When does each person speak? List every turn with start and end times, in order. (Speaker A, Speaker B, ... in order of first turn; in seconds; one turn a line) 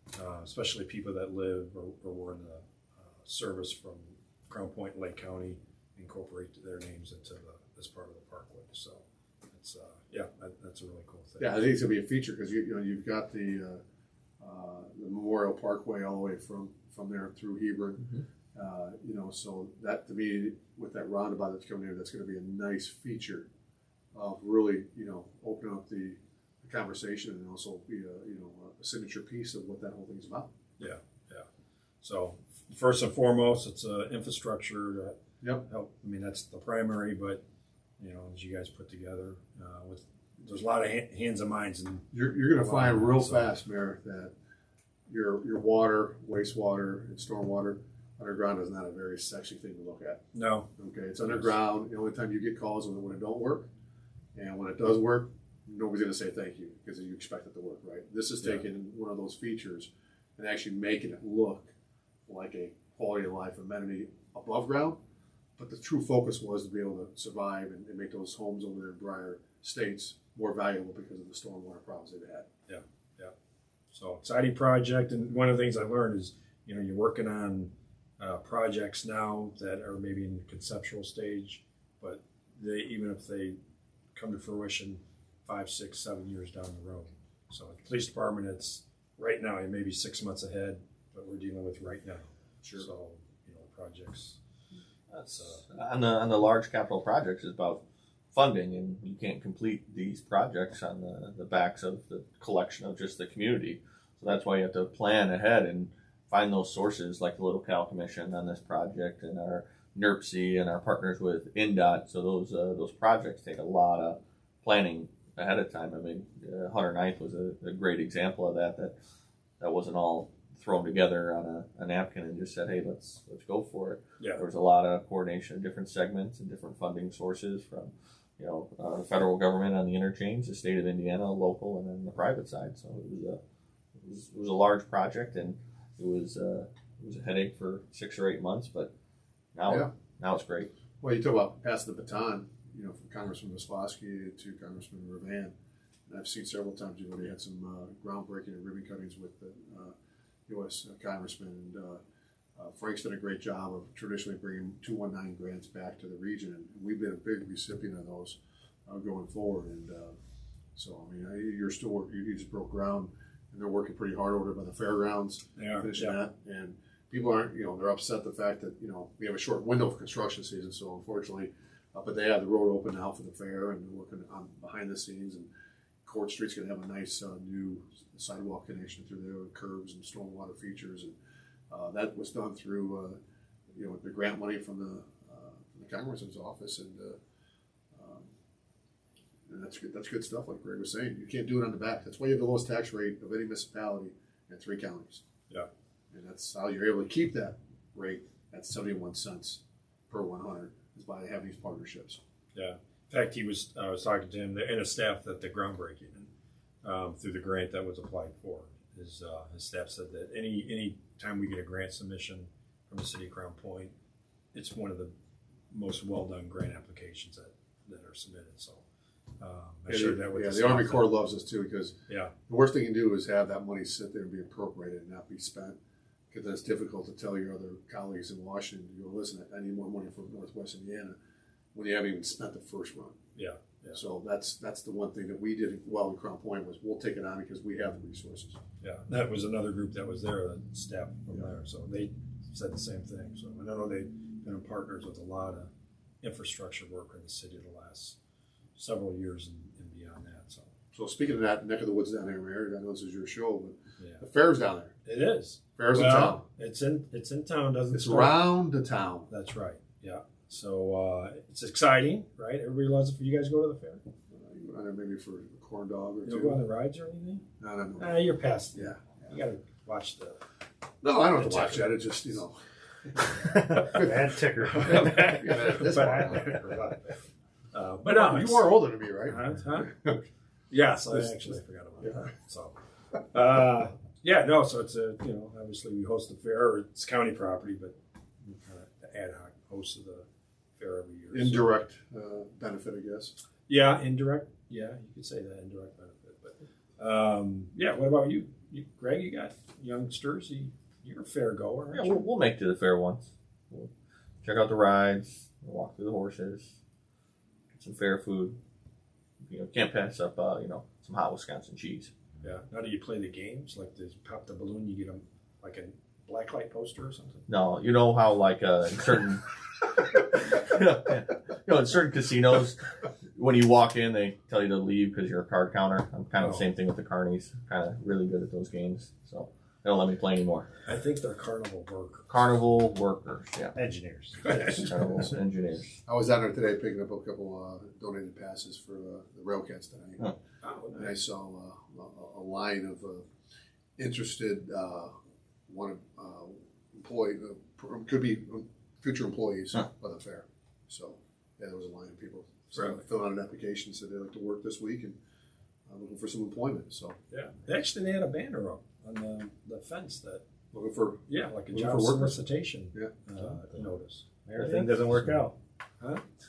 Speaker A: 0.1-11.6
Speaker B: 11.4-13.8
Speaker B: 14.4-23.5
Speaker B: 24.1-30.5
Speaker A: 30.8-31.5
Speaker A: 32.0-37.4
Speaker A: 38.0-43.5
Speaker B: 42.1-44.3
Speaker B: 45.1-50.2
Speaker A: 50.3-50.7
Speaker B: 50.8-53.7
Speaker B: 54.4-61.7
Speaker B: 62.3-65.0
Speaker B: 65.6-72.5
Speaker A: 72.7-73.3
Speaker A: 73.9-83.6
Speaker A: 84.2-94.4
Speaker C: 95.1-97.8
Speaker A: 95.2-95.7
Speaker C: 98.3-119.0
Speaker C: 119.6-133.4
Speaker A: 124.2-124.4
Speaker C: 134.0-138.9
Speaker C: 139.6-140.7
Speaker B: 141.0-145.5
Speaker B: 146.1-149.9
Speaker B: 150.5-152.0
Speaker B: 152.6-160.2
Speaker B: 160.8-175.5
Speaker A: 165.6-166.2
Speaker B: 176.1-181.2
Speaker B: 181.7-183.2
Speaker B: 183.7-187.2
Speaker B: 187.9-188.3
Speaker B: 189.5-195.2
Speaker B: 196.1-202.2
Speaker A: 202.5-206.3
Speaker A: 206.8-213.9
Speaker A: 214.5-215.1
Speaker A: 215.7-218.8
Speaker A: 219.4-221.2
Speaker B: 219.9-225.8
Speaker A: 222.1-222.3
Speaker B: 226.3-231.2
Speaker B: 231.7-233.2
Speaker A: 233.4-234.0
Speaker B: 233.9-238.6
Speaker A: 238.8-245.7
Speaker A: 246.2-248.2
Speaker A: 248.8-250.7
Speaker B: 250.9-255.0
Speaker A: 254.0-254.2
Speaker A: 255.1-258.5
Speaker B: 255.8-256.4
Speaker B: 257.9-259.3
Speaker A: 259.3-264.0
Speaker B: 264.3-266.6
Speaker A: 266.2-267.4
Speaker B: 267.6-268.2
Speaker A: 268.0-270.4
Speaker B: 268.8-269.1
Speaker B: 271.0-272.6
Speaker A: 271.4-272.0
Speaker B: 273.2-274.1
Speaker D: 273.3-276.6
Speaker A: 273.4-274.1
Speaker A: 274.6-277.2
Speaker B: 274.8-276.8
Speaker A: 277.7-279.9
Speaker B: 278.1-280.3
Speaker A: 280.7-282.8
Speaker B: 282.0-282.3
Speaker A: 283.3-291.7
Speaker B: 291.3-293.3
Speaker A: 293.7-302.2
Speaker C: 301.9-303.9
Speaker C: 304.4-306.8
Speaker C: 307.7-308.6
Speaker C: 309.4-312.1
Speaker A: 312.4-317.5
Speaker C: 317.5-322.8
Speaker C: 323.4-330.7
Speaker A: 326.4-326.7
Speaker A: 330.9-332.3
Speaker C: 332.3-333.7
Speaker D: 333.8-334.4
Speaker A: 334.4-334.9
Speaker C: 334.4-336.0
Speaker B: 334.5-335.3
Speaker B: 336.1-340.4
Speaker A: 340.6-341.2
Speaker B: 340.9-343.3
Speaker B: 344.0-345.1
Speaker B: 345.7-355.2
Speaker A: 352.7-353.0
Speaker B: 355.9-357.2
Speaker A: 357.3-360.4
Speaker B: 360.7-362.4
Speaker A: 361.3-365.4
Speaker D: 363.4-363.9
Speaker D: 364.4-365.6